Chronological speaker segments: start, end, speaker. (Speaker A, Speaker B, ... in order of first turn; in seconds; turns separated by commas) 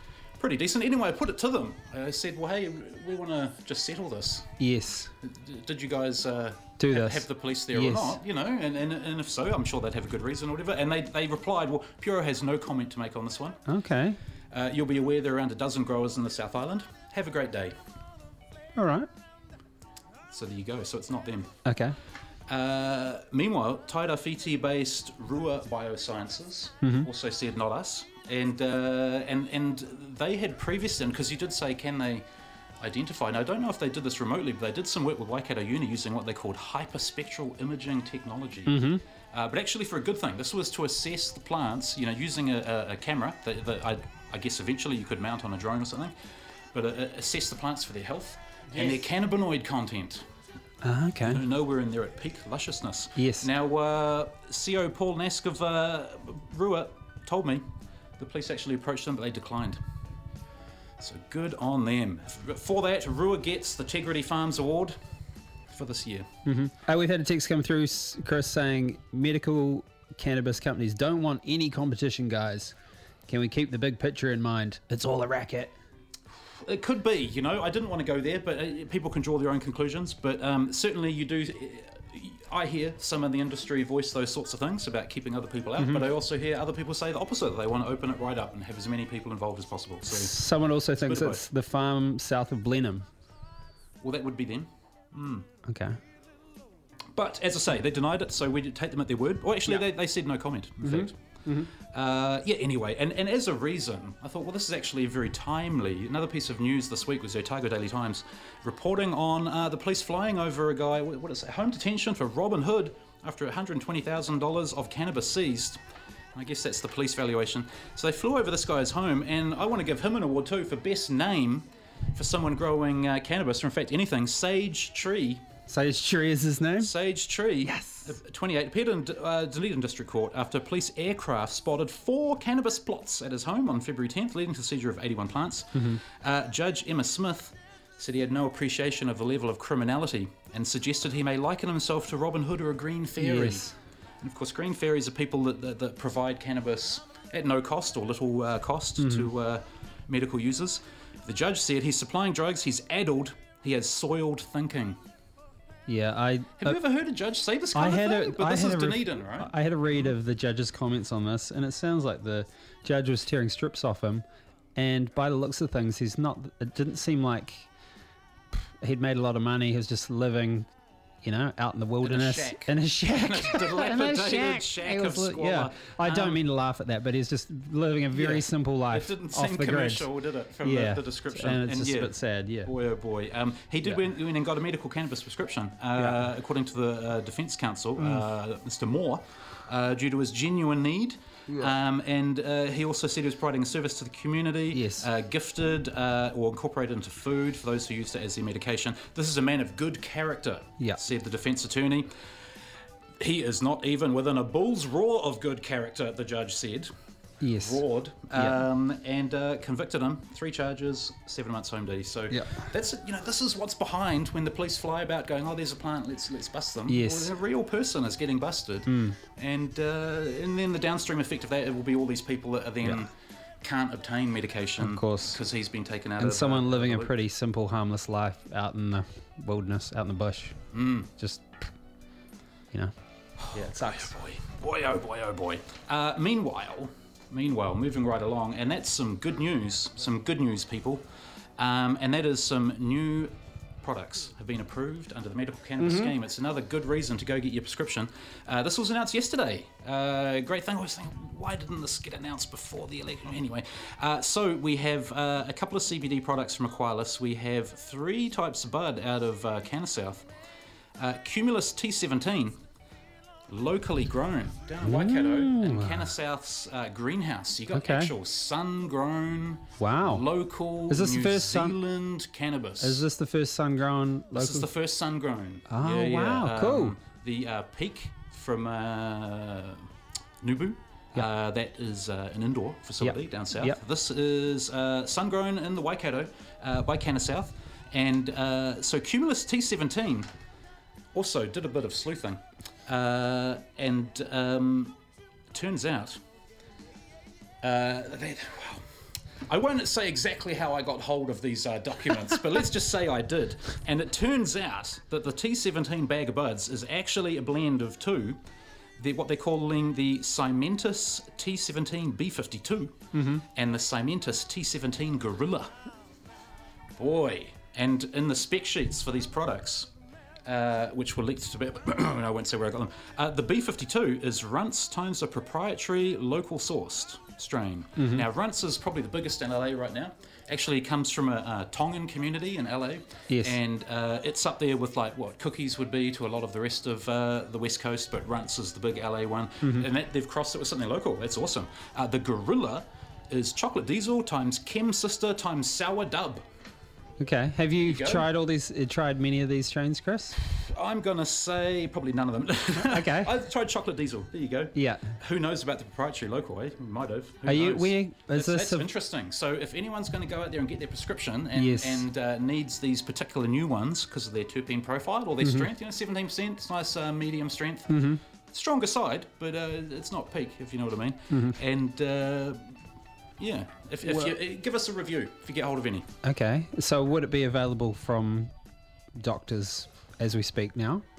Speaker A: 0.4-4.5, Speaker B: 4.6-5.1, Speaker A: 5.2-13.6, Speaker B: 6.8-8.2, Speaker B: 13.7-14.2, Speaker A: 14.5-17.7, Speaker B: 18.8-19.1, Speaker A: 20.3-21.6, Speaker B: 21.6-21.9, Speaker A: 22.5-32.2, Speaker B: 26.8-27.1, Speaker A: 32.8-38.8, Speaker B: 38.7-39.0, Speaker A: 39.3-46.1, Speaker A: 46.7-50.2, Speaker B: 50.8-51.4, Speaker A: 51.2-57.6, Speaker B: 53.2-53.5, Speaker A: 58.2-59.8, Speaker A: 61.0-65.0, Speaker A: 65.7-66.3, Speaker B: 66.4-72.7, Speaker B: 73.3-75.8, Speaker A: 76.6-90.3, Speaker B: 85.8-86.1, Speaker B: 90.1-93.1, Speaker A: 91.0-91.4, Speaker A: 94.0-95.5, Speaker B: 95.7-96.0, Speaker A: 97.1-101.2, Speaker B: 100.8-101.7, Speaker A: 101.7-115.8, Speaker A: 116.3-125.4, Speaker B: 125.7-126.9, Speaker A: 126.8-143.7, Speaker B: 127.6-128.1, Speaker B: 135.8-136.0, Speaker B: 143.2-143.8, Speaker A: 144.2-155.0, Speaker B: 149.0-149.3, Speaker B: 155.9-156.8, Speaker A: 156.6-160.2, Speaker B: 157.7-164.2, Speaker B: 164.8-167.7, Speaker B: 168.8-170.7, Speaker B: 171.2-180.1, Speaker A: 172.0-176.4, Speaker A: 178.1-202.1, Speaker B: 180.6-182.7, Speaker B: 188.0-188.2, Speaker B: 194.7-195.1, Speaker A: 203.2-206.9, Speaker B: 207.4-207.8, Speaker A: 207.6-227.2, Speaker B: 208.3-208.6, Speaker B: 212.3-212.7, Speaker B: 216.9-217.3, Speaker B: 218.9-219.2, Speaker B: 224.8-225.4, Speaker B: 226.2-230.6, Speaker A: 230.7-231.1, Speaker B: 231.2-231.5, Speaker A: 233.4-241.1, Speaker B: 233.5-234.1, Speaker A: 241.6-260.3, Speaker B: 245.8-246.1, Speaker A: 261.0-262.6, Speaker A: 263.5-273.1, Speaker B: 264.8-266.1, Speaker B: 267.7-268.1, Speaker B: 269.8-270.3, Speaker B: 270.9-271.8, Speaker B: 272.8-274.7, Speaker A: 274.3-279.9, Speaker B: 275.7-276.9, Speaker A: 280.4-290.3, Speaker B: 283.0-283.8, Speaker A: 291.1-295.0, Speaker A: 295.5-296.2, Speaker A: 297.6-298.8, Speaker A: 299.5-308.4, Speaker A: 309.0-315.8, Speaker B: 313.1-313.4, Speaker A: 317.0-319.9, Speaker A: 320.4-346.4, Speaker B: 328.0-328.3, Speaker B: 333.3-333.6, Speaker B: 339.6-339.9, Speaker B: 347.2-350.4, Speaker A: 347.8-348.3, Speaker A: 350.3-372.7, Speaker B: 352.8-353.3, Speaker B: 354.8-355.1, Speaker B: 357.4-358.9, Speaker B: 361.6-362.1, Speaker B: 365.4-365.7, Speaker B: 367.9-368.2, Speaker B: 371.3-371.6, Speaker A: 373.4-376.1, Speaker B: 374.1-374.4, Speaker B: 376.2-378.5, Speaker B: 379.2-381.0